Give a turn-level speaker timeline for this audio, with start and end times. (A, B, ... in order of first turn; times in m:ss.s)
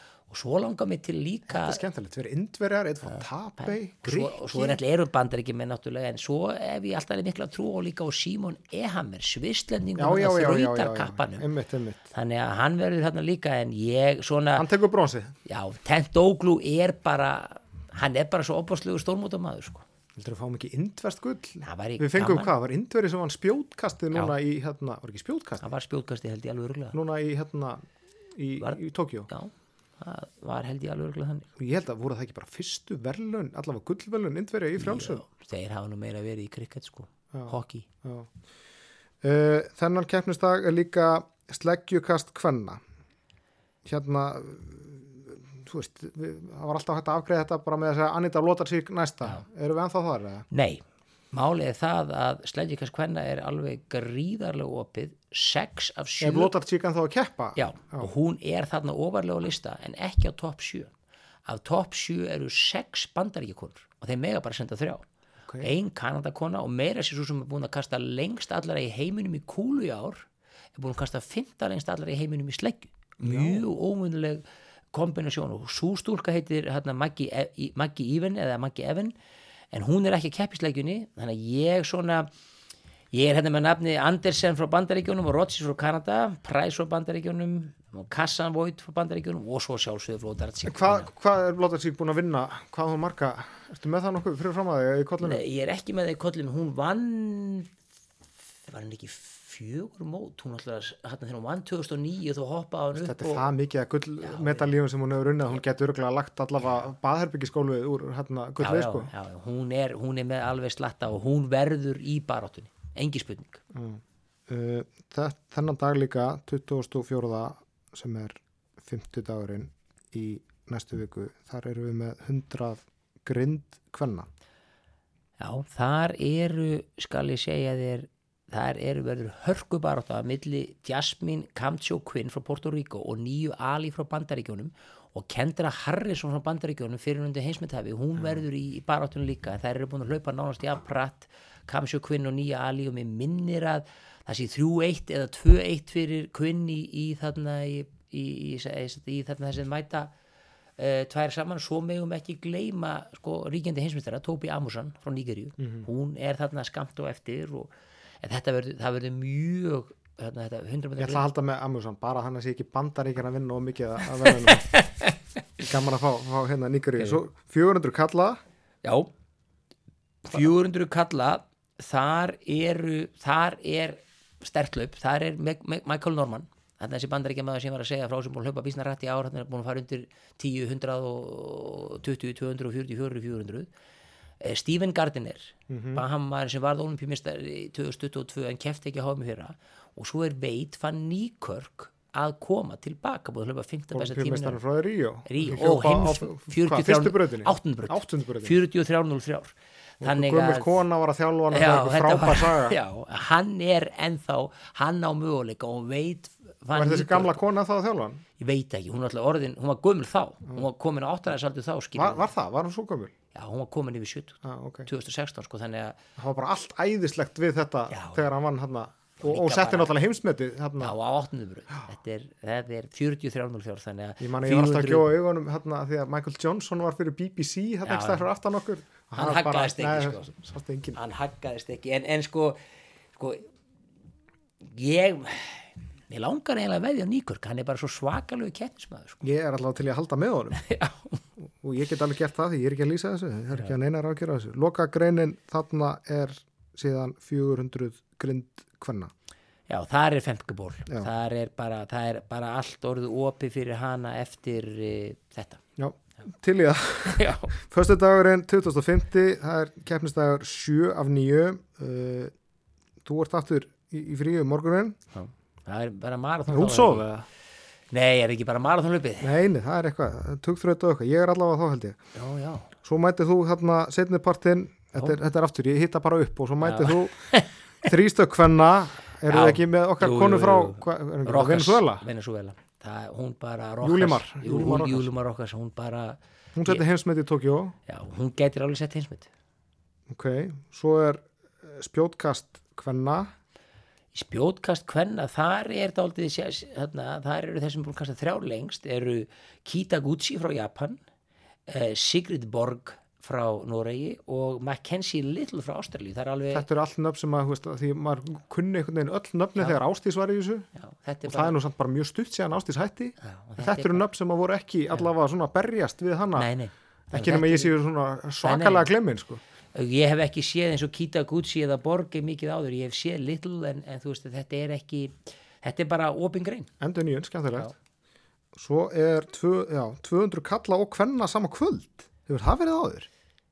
0:00.3-0:01.8 A
0:01.5-0:04.8 B
0:03.1-0:11.4 A
0:10.0-0:12.1 B
0:12.1-0:14.6 A
0:14.6-0:15.3 B
0:15.4-0:19.8 A
0:20.2-0:25.6 B
0:21.6-0:22.5 A
0:25.6-0:27.0 A
0:26.9-0:27.8 B
0:28.4-0:29.3 B
0:28.6-0:31.5 A
0:31.6-0:35.2 B
0:34.8-0:37.8 A
0:37.3-0:38.3 B
0:39.2-0:42.8 B
0:43.8-0:50.5 B
0:50.5-0:56.5 A
0:56.2-0:58.1 B
0:57.6-1:00.9 A
1:01.4-1:05.0 A
1:05.6-1:19.1 A
1:13.2-1:13.6 B
1:19.7-1:22.3 A
1:23.1-1:31.1 A
1:30.7-1:35.4 B
1:35.2-1:37.7 A
1:38.7-1:43.4 A
1:43.0-1:49.1 B
1:44.2-1:44.7 A
1:48.6-1:53.6 A
1:53.7-2:04.3 B
2:05.4-2:30.1 A
2:18.2-2:18.4 B
2:30.8-2:37.7 A
2:35.6-2:35.9 B
2:38.2-2:41.2 A
2:41.0-2:44.7 B
2:44.2-2:45.1 A
2:45.6-2:48.4 B
2:48.8-2:49.1 A
2:50.2-3:03.7 A
3:04.4-3:14.6 A
3:05.7-3:06.0 B
3:13.9-3:18.6 B
3:15.2-3:20.8 A
3:20.0-3:22.8 B
3:21.5-3:27.4 A
3:26.7-3:28.2 B
3:28.4-3:32.3 A
3:32.0-3:33.1 B
3:33.3-3:36.0 A
3:34.4-3:34.9 B
3:36.2-3:40.9 B
3:37.9-3:38.2 A
3:39.2-3:39.9 A
3:40.8-3:45.1 A
3:44.2-3:51.0 B
3:47.8-3:48.2 A
3:49.2-3:50.3 A
3:51.0-3:52.6 A
3:53.2-3:53.5 A
3:54.6-3:59.2 A
3:59.2-4:00.6 B
4:00.6-4:01.2 A
4:01.6-4:09.1 B
4:09.7-4:15.6 A
4:15.8-4:22.3 B
4:17.1-4:17.5 A
4:23.0-4:25.0 B
4:25.1-4:27.0 A
4:26.5-4:27.2 B
4:27.9-4:29.3 A
4:29.2-4:32.0 B
4:32.2-4:32.7 A
4:32.8-4:37.2 B
4:36.6-4:37.5 A
4:37.8-4:42.0 B
4:39.3-4:46.8 A
4:43.8-4:45.1 B
4:46.6-4:47.8 B
4:47.9-4:49.3 A
4:50.1-4:53.3 B
4:54.1-5:01.0 A
5:01.7-5:06.6 A
5:06.5-5:10.7 B
5:10.8-5:11.6 A
5:11.2-5:16.5 B
5:13.2-5:14.0 A
5:16.4-5:17.7 A
5:17.1-5:19.4 B
5:18.4-5:18.9 A
5:19.7-5:26.7 A
5:26.8-5:27.7 B
5:28.6-5:33.1 B